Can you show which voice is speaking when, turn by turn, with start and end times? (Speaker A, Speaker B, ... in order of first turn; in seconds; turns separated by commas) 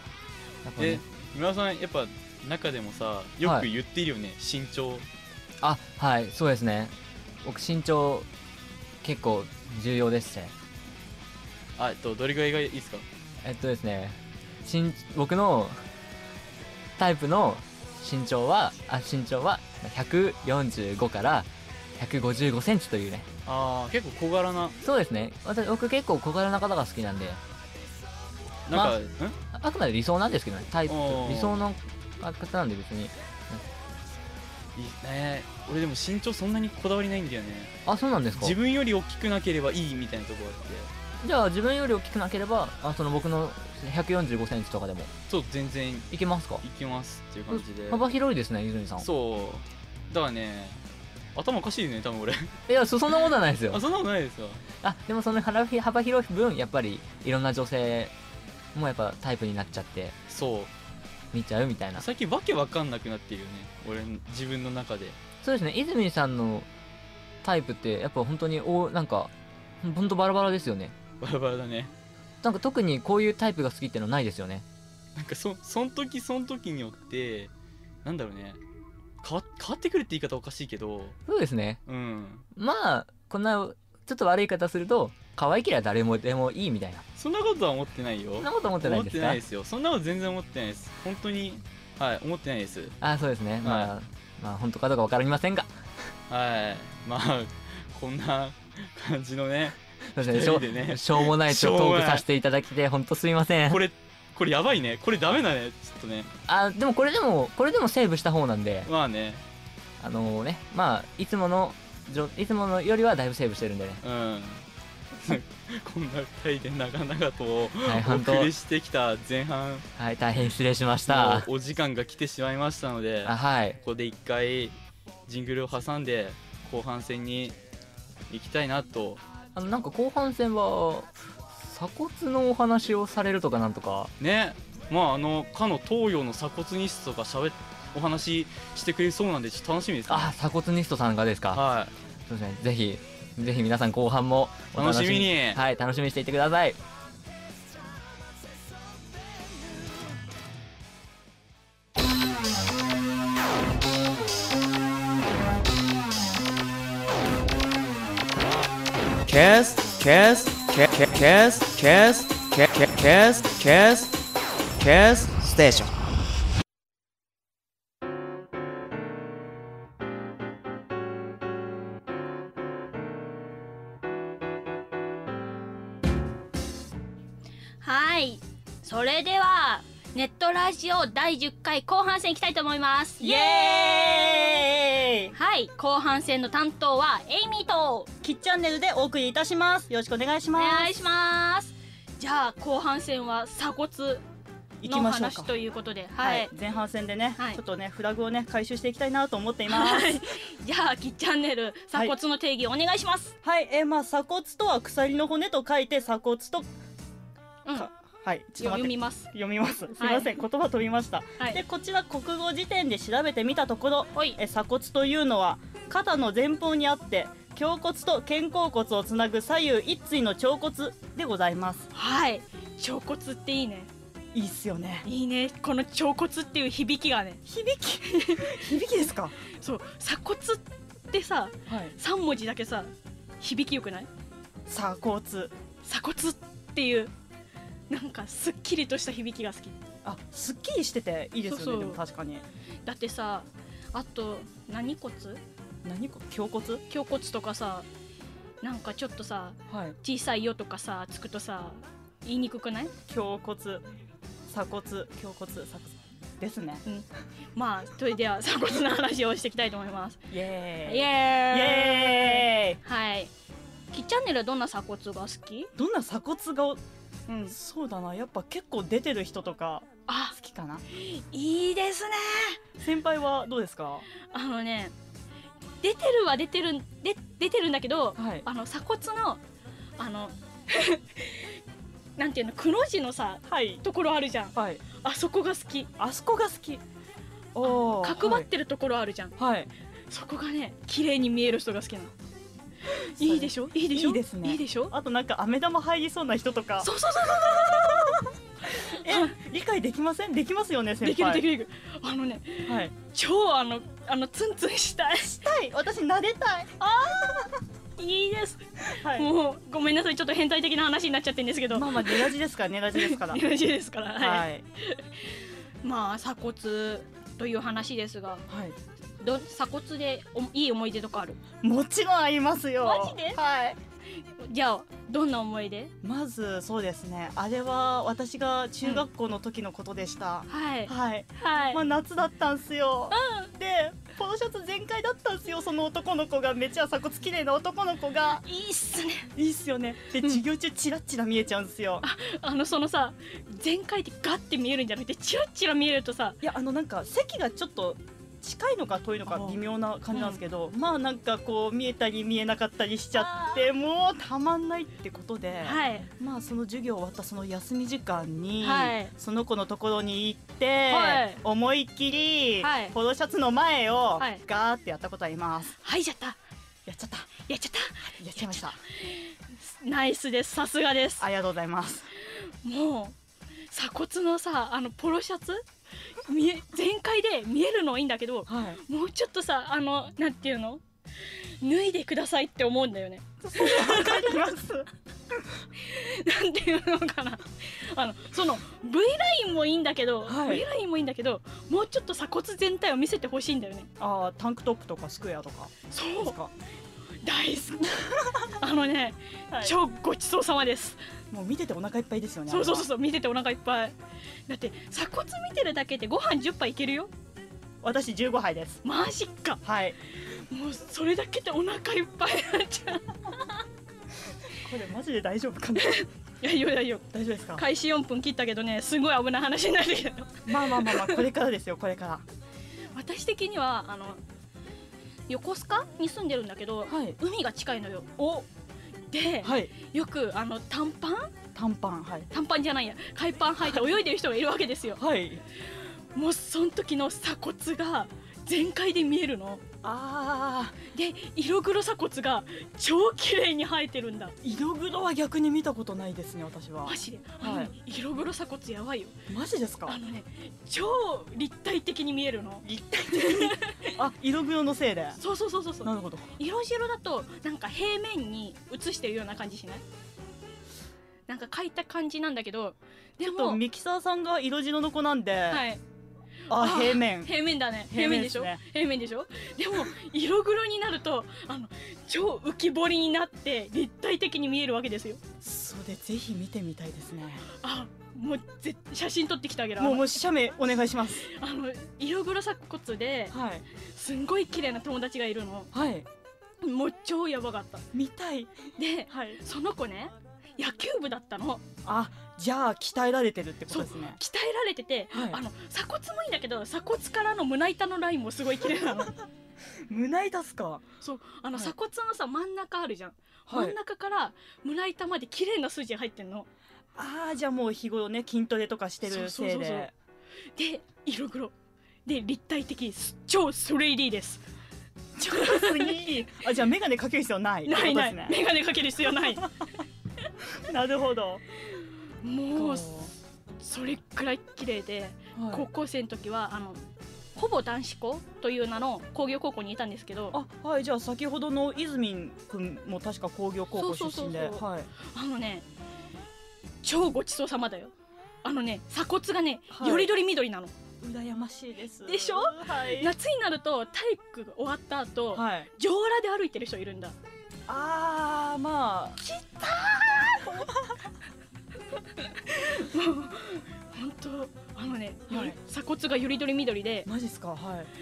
Speaker A: 0.7-1.0, Speaker B: 0.8-5.1, Speaker A: 5.6-8.3, Speaker A: 9.0-10.5, Speaker B: 11.8-13.1, Speaker A: 13.4-15.8, Speaker A: 17.0-23.3, Speaker B: 23.5-24.8, Speaker A: 24.8-27.4, Speaker B: 28.7-29.4, Speaker A: 28.7-29.0, Speaker A: 29.5-33.6, Speaker B: 30.9-31.6, Speaker B: 34.8-37.8, Speaker A: 37.9-38.6, Speaker B: 38.3-40.9, Speaker A: 41.2-45.1, Speaker B: 45.3-48.0, Speaker A: 46.1-46.6, Speaker A: 47.5-49.1, Speaker B: 49.0-50.8, Speaker B: 51.4-52.6, Speaker A: 52.7-53.8, Speaker B: 53.7-54.6, Speaker A: 54.8-58.1, Speaker A: 58.8-60.2, Speaker B: 60.3-60.7, Speaker A: 61.3-62.1, Speaker B: 62.0-65.2, Speaker A: 65.4-66.7, Speaker A: 67.4-71.0, Speaker B: 71.2-71.9, Speaker A: 72.4-74.7, Speaker B: 75.2-77.5, Speaker B: 78.0-78.6, Speaker B: 79.2-81.2, Speaker A: 81.3-81.8, Speaker B: 81.9-82.5, Speaker A: 82.5-87.0, Speaker B: 87.2-93.0, Speaker A: 88.4-89.4, Speaker A: 93.0-95.7, Speaker B: 93.6-93.9, Speaker B: 96.3-102.2, Speaker A: 100.2-103.8, Speaker B: 103.7-106.3, Speaker A: 106.5-108.9, Speaker B: 108.9-109.4, Speaker A: 110.0-114.0, Speaker B: 114.0-119.9, Speaker A: 117.8-118.5, Speaker A: 120.0-121.5, Speaker B: 121.1-124.8, Speaker A: 123.2-123.8, Speaker B: 125.3-127.6, Speaker B: 128.3-129.2, Speaker A: 129.6-134.1, Speaker B: 134.2-140.3, Speaker A: 140.1-141.6, Speaker B: 141.5-141.9, Speaker A: 142.3-146.8, Speaker B: 144.7-145.6, Speaker C: 159.3-164.2, Speaker C: 164.8-165.9, Speaker D: 177.8-184.6, Speaker E: 183.2-185.3, Speaker D: 185.3-188.1, Speaker E: 188.2-190.9, Speaker D: 190.6-194.2, Speaker E: 194.8-195.5, Speaker D: 194.9-196.5, Speaker E: 196.2-200.2, Speaker D: 199.7-203.3, Speaker E: 203.4-206.7, Speaker E: 207.8-221.9, Speaker D: 208.6-209.3, Speaker D: 210.0-210.4, Speaker D: 214.1-214.4, Speaker D: 221.9-223.9, Speaker E: 224.3-225.1, Speaker D: 225.1-227.5, Speaker E: 227.5-229.4, Speaker D: 228.0-228.7, Speaker D: 229.5-234.1, Speaker E: 231.7-231.9, Speaker E: 234.7-235.5, Speaker D: 235.8-237.1, Speaker D: 237.9-239.8, Speaker E: 240.0-242.4, Speaker D: 241.4-242.0, Speaker D: 242.8-245.4, Speaker E: 245.8-246.8, Speaker D: 246.9-247.9, Speaker D: 248.6-252.9, Speaker E: 249.7-250.0, Speaker E: 253.1-253.8, Speaker E: 254.5-256.8, Speaker D: 256.9-260.3, Speaker E: 260.3-262.8, Speaker D: 260.9-263.3, Speaker D: 263.9-265.7, Speaker E: 265.8-266.8, Speaker D: 267.3-267.6, Speaker E: 267.5-270.8, Speaker D: 270.1-270.4, Speaker D: 270.9-272.6, Speaker E: 272.8-274.1, Speaker D: 274.3-274.9, Speaker D: 275.8-279.4, Speaker E: 278.2-278.4, Speaker D: 280.0-281.6, Speaker D: 282.2-285.9, Speaker E: 283.5-283.8, Speaker E: 284.6-284.8, Speaker E: 286.0-286.8, Speaker E: 287.6-288.5, Speaker D: 287.6-289.4, Speaker E: 289.4-289.7, Speaker D: 290.1-292.1, Speaker D: 293.1-294.9, Speaker E: 293.2-298.1, Speaker D: 296.8-298.2, Speaker E: 298.9-301.4, Speaker D: 298.9-299.4, Speaker D: 301.0-305.4, Speaker E: 302.7-302.9, Speaker E: 305.3-306.7, Speaker D: 306.8-312.3, Speaker E: 309.0-309.3, Speaker E: 311.7-313.4, Speaker D: 312.9-318.5, Speaker E: 314.2-314.7, Speaker E: 318.5-318.8, Speaker D: 319.2-321.4, Speaker E: 321.6-323.8, Speaker D: 322.8-323.4, Speaker D: 324.4-325.9, Speaker E: 326.0-338.4, Speaker D: 330.5-331.8, Speaker D: 333.1-333.5, Speaker D: 338.4-339.3, Speaker E: 339.4-342.1, Speaker D: 342.0-346.4, Speaker E: 346.4-365.7, Speaker D: 349.3-349.6, Speaker D: 350.1-350.4, Speaker D: 353.1-353.7, Speaker D: 355.6-356.1, Speaker D: 358.6-359.1, Speaker D: 360.9-361.4, Speaker D: 362.6-362.9, Speaker D: 365.8-366.4, Speaker E: 366.9-367.3, Speaker D: 367.5-371.3, Speaker E: 368.2-368.8, Speaker E: 371.2-372.1, Speaker D: 372.6-373.2, Speaker D: 373.7-375.6, Speaker D: 376.2-384.4, Speaker E: 378.5-378.8, Speaker E: 383.4-384.9, Speaker D: 385.8-393.9, Speaker E: 390.3-390.6, Speaker E: 394.0-396.5, Speaker D: 395.9-396.4, Speaker D: 397.2-401.0, Speaker E: 401.3-402.9, Speaker D: 402.5-403.9, Speaker D: 404.5-407.1, Speaker E: 407.8-408.8, Speaker D: 408.8-409.6, Speaker E: 409.6-410.0, Speaker D: 410.5-413.5, Speaker E: 414.6-416.0, Speaker D: 415.8-421.2, Speaker E: 417.1-417.6, Speaker E: 420.5-422.2, Speaker D: 422.9-424.2, Speaker D: 425.3-428.1, Speaker E: 426.9-427.2, Speaker E: 428.2-428.5, Speaker D: 429.1-431.3, Speaker E: 429.4-429.7, Speaker E: 431.6-432.3, Speaker D: 432.3-435.0, Speaker E: 435.0-435.4, Speaker D: 436.1-439.6, Speaker E: 439.8-440.8, Speaker D: 440.9-444.3, Speaker E: 444.4-447.7, Speaker D: 446.9-449.1, Speaker E: 449.3-450.0, Speaker D: 449.9-453.9, Speaker E: 452.6-455.2, Speaker D: 455.2-459.8, Speaker E: 455.8-456.3, Speaker D: 461.3-463.6, Speaker E: 463.2-465.6, Speaker D: 465.5-465.8, Speaker E: 466.5-467.3, Speaker D: 466.5-475.2, Speaker E: 467.9-468.6, Speaker E: 475.4-477.5, Speaker D: 477.5-480.2, Speaker E: 479.8-481.2, Speaker D: 481.2-485.7, Speaker E: 483.3-483.6, Speaker E: 485.7-486.1, Speaker D: 486.6-487.8, Speaker E: 487.9-489.4, Speaker D: 488.8-491.6, Speaker E: 491.9-494.2, Speaker D: 493.7-499.1, Speaker E: 495.1-495.4, Speaker E: 499.9-500.9, Speaker D: 501.0-506.5, Speaker E: 503.5-503.8, Speaker E: 506.9-509.9, Speaker D: 509.1-509.9, Speaker D: 510.6-511.5, Speaker D: 512.1-514.4, Speaker E: 515.2-518.4, Speaker D: 515.2-516.0, Speaker D: 517.7-519.5, Speaker E: 520.6-521.4, Speaker D: 522.2-522.9, Speaker E: 522.5-523.1, Speaker D: 523.6-530.4, Speaker E: 525.4-525.7, Speaker E: 530.3-534.9, Speaker D: 533.8-535.6, Speaker D: 536.8-537.9, Speaker D: 538.4-540.7, Speaker E: 539.7-540.1, Speaker E: 541.0-543.1, Speaker D: 542.0-547.1, Speaker E: 545.3-545.7, Speaker E: 547.7-549.2, Speaker D: 549.2-550.5, Speaker E: 550.2-550.9, Speaker D: 552.0-557.1, Speaker E: 555.3-555.6, Speaker E: 557.1-557.9